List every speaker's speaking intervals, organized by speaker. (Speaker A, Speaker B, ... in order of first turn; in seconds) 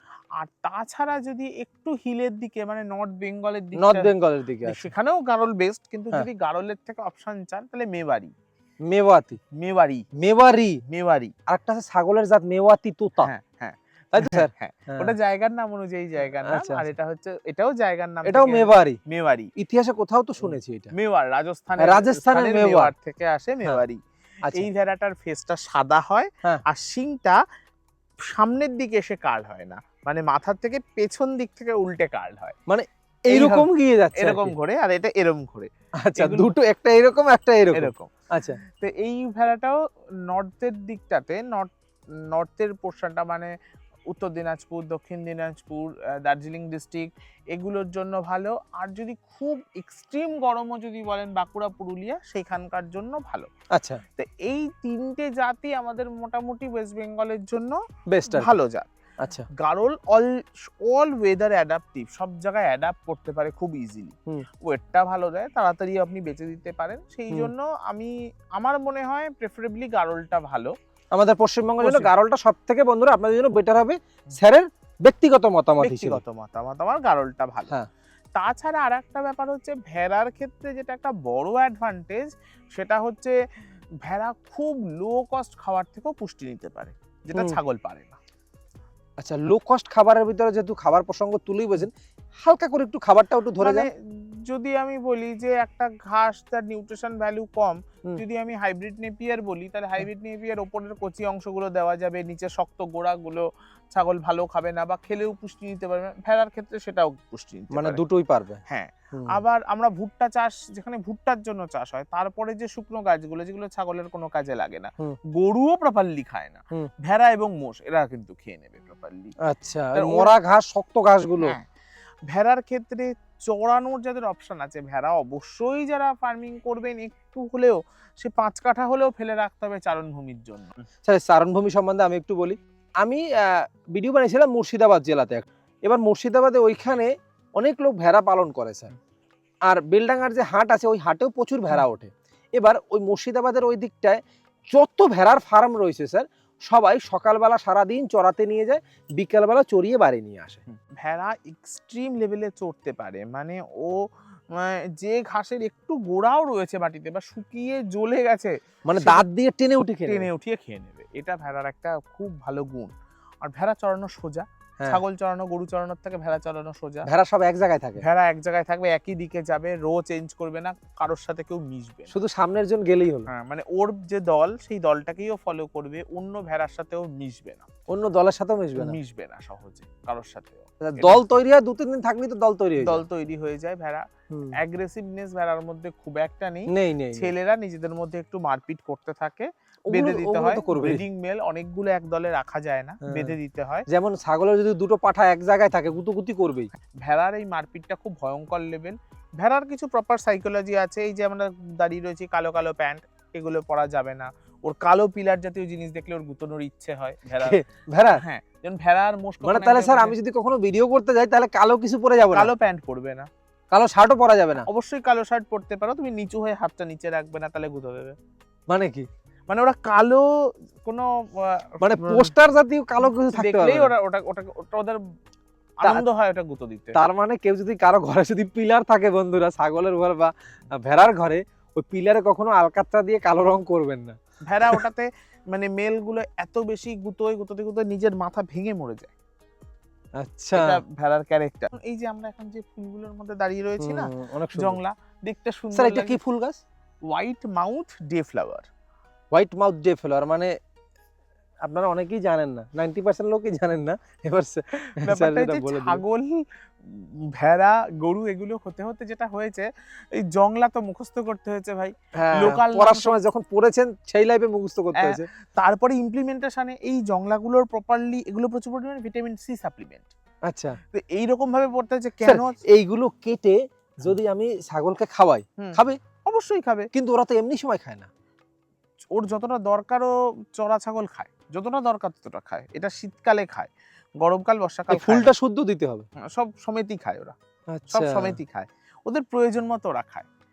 Speaker A: 0.4-8.3, 9.6-10.1, 10.9-11.3, 13.2-19.5, 20.4-24.0, 24.5-27.4, 28.3-32.5, 33.3-36.5, 37.7-38.1, 38.8-41.7, 42.3-43.5, 44.1-53.5, 54.2-58.9, 59.6-70.7, 71.8-72.1, 75.8-77.7, 78.4-83.4, 84.0-88.2, 93.6-93.9, 94.5-108.0, 108.7-119.3, 119.9-120.3, 121.4-121.7, 122.3-130.7, 150.7-159.2, 160.1-162.9, 163.4-167.1, 168.0-172.1, 173.3-177.7, 178.8-181.2, 182.8-184.1, 184.6-193.9, 197.0-207.6, 208.2-210.2, 212.3-213.3, 214.6-218.2, 219.5-222.3, 223.3-225.0, 225.8-227.0, 234.5-239.1, 240.5-246.2, 247.1-248.7, 255.0-263.2, 264.9-270.1, 270.9-272.6, 275.6-276.9, 279.1-283.7, 284.2-285.3, 286.2-287.3, 287.9-290.3
Speaker B: 3.8-4.8, 8.9-9.4, 10.2-10.8, 11.5-13.3, 14.1-15.1, 16.4-16.9, 18.2-19.0, 19.6-20.9, 21.8-22.9, 32.7-34.5, 36.0-38.6, 53.7-54.0, 58.1-58.5, 71.1-76.2, 89.2-91.9, 92.4-93.9, 107.7-108.6, 109.1-109.4, 119.5-121.6, 131.1-138.9, 139.7-144.2, 144.7-150.6, 158.9-160.3, 167.1-168.0, 172.1-173.3, 177.9-179.0, 180.8-183.0, 186.7-187.3, 189.9-191.0, 193.0-193.3, 193.9-196.7, 207.4-208.2, 209.4-212.5, 213.7-214.7, 218.7-219.1, 221.8-223.9, 226.9-234.2, 240.2-240.7, 243.8-244.8, 245.7-246.6, 249.3-250.5, 251.6-256.0, 262.2-265.3, 270.5-270.8, 272.2-276.0, 276.9-278.1, 284.9-286.1, 287.7-288.4